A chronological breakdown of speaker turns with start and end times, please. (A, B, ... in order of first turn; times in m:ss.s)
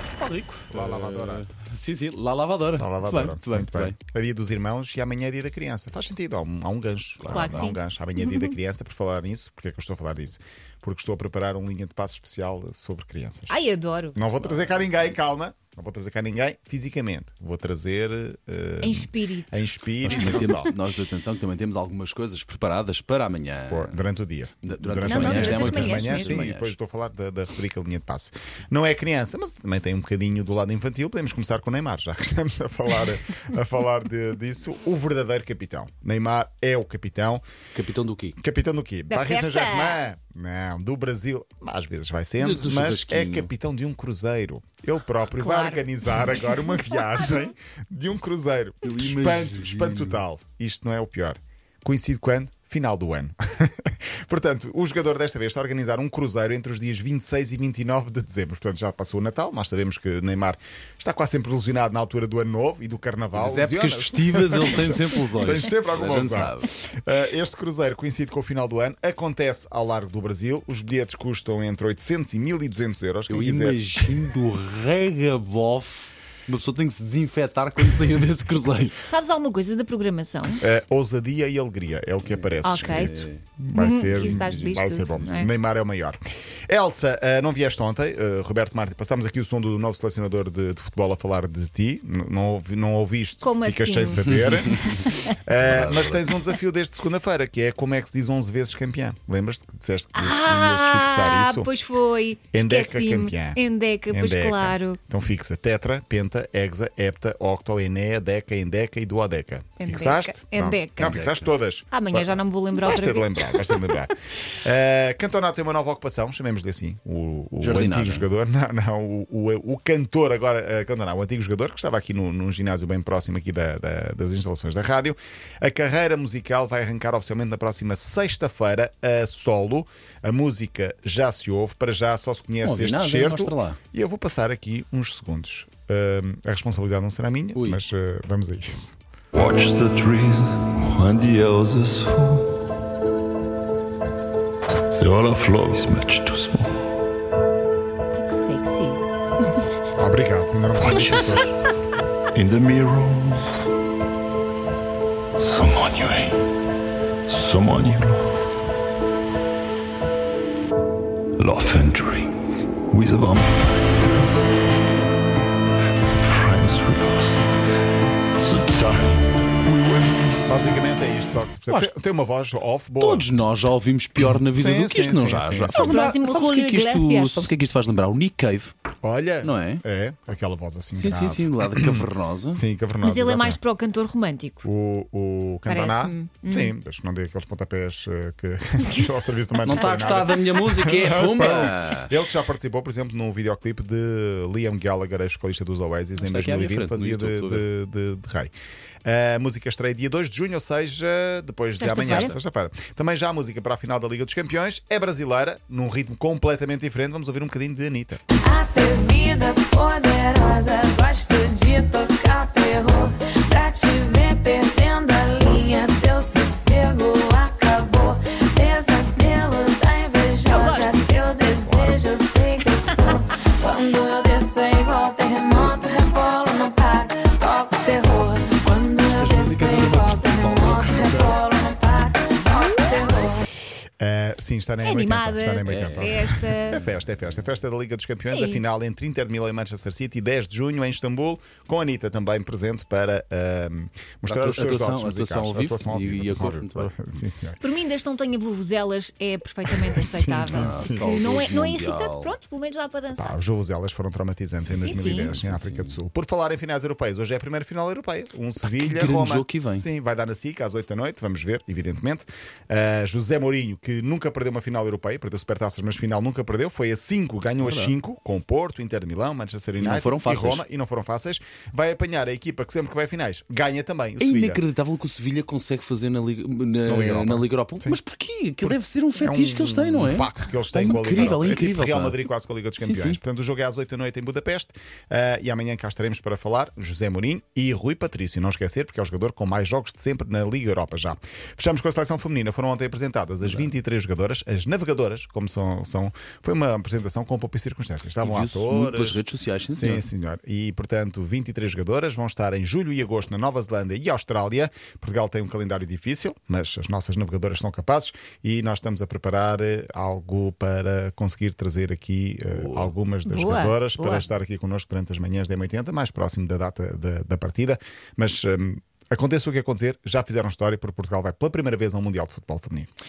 0:00.2-0:04.0 A
0:00.7-0:01.5 B
0:02.8-0:13.6 B
0:07.2-0:07.7 A
0:07.3-0:08.5 C
0:13.5-0:14.2 C
0:14.2-0:20.7 B
0:14.4-0:15.1 A
0:18.8-0:20.6 C
0:20.0-0:24.0 A
0:23.7-0:37.4 B
0:24.6-0:26.8 A
0:25.0-0:26.4 C
0:37.7-0:38.4 A
0:38.4-1:13.8 B
0:39.1-0:40.0 C
0:42.4-0:43.5 A
0:45.4-0:47.0 C
0:48.8-0:50.2 A
1:03.4-1:06.7 A
1:13.3-1:19.1 A
1:19.0-1:20.6 C
1:20.6-1:41.7 B
1:22.2-1:23.4 A
1:22.6-1:23.2 C
1:23.8-1:25.5 C
1:24.1-1:24.9 A
1:33.4-1:34.3 C
1:34.3-1:36.3 A
1:35.0-1:35.3 C
1:40.2-1:45.0 C
1:42.5-2:18.9 B
1:49.8-1:51.2 C
1:51.0-1:51.5 A
1:51.9-1:53.9 C
1:57.6-1:58.3 A
2:12.6-2:13.8 A
2:17.6-2:17.8 A
2:19.3-2:22.5 D
2:24.9-2:26.8 D
2:28.2-2:29.7 C
2:30.0-2:31.5 B
2:30.8-2:31.4 D
2:32.3-2:33.5 D
2:35.4-2:36.4 D
2:37.3-2:38.4 D
2:41.4-2:42.3 D
2:42.9-2:44.6 D
2:46.0-2:47.6 D
2:48.4-2:50.5 D
2:50.5-2:53.3 B
2:51.7-2:51.9 A
2:53.0-2:58.7 A
2:54.2-2:56.0 B
2:55.7-2:57.5 C
2:59.0-3:03.6 B
2:59.4-2:59.8 A
3:00.9-3:02.6 A
3:03.0-3:04.6 C
3:04.6-3:18.5 B
3:05.7-3:06.7 C
3:09.6-3:12.1 A
3:16.2-3:17.7 A
3:19.0-3:28.2 B
3:21.8-3:22.3 C
3:28.4-3:53.4 E
3:40.5-3:41.2 C
3:41.7-3:42.0 B
3:49.0-3:51.4 A
3:54.0-4:07.6 B
3:54.8-3:56.8 C
3:55.7-3:56.2 A
3:58.3-3:58.6 C
4:04.2-4:06.9 A
4:07.6-4:13.4 C
4:10.0-4:11.3 B
4:10.4-4:12.4 A
4:13.1-4:34.6 B
4:14.6-4:16.0 A
4:14.7-4:15.3 C
4:18.6-4:19.9 A
4:27.6-4:27.9 A
4:29.8-4:30.6 A
4:34.2-4:42.2 A
4:36.9-4:38.0 B
4:38.6-4:59.2 B
4:42.8-4:43.2 A
4:53.4-4:53.7 A
4:58.2-5:00.0 A
4:59.8-5:22.9 B
5:12.5-5:12.9 A
5:13.3-5:14.2 C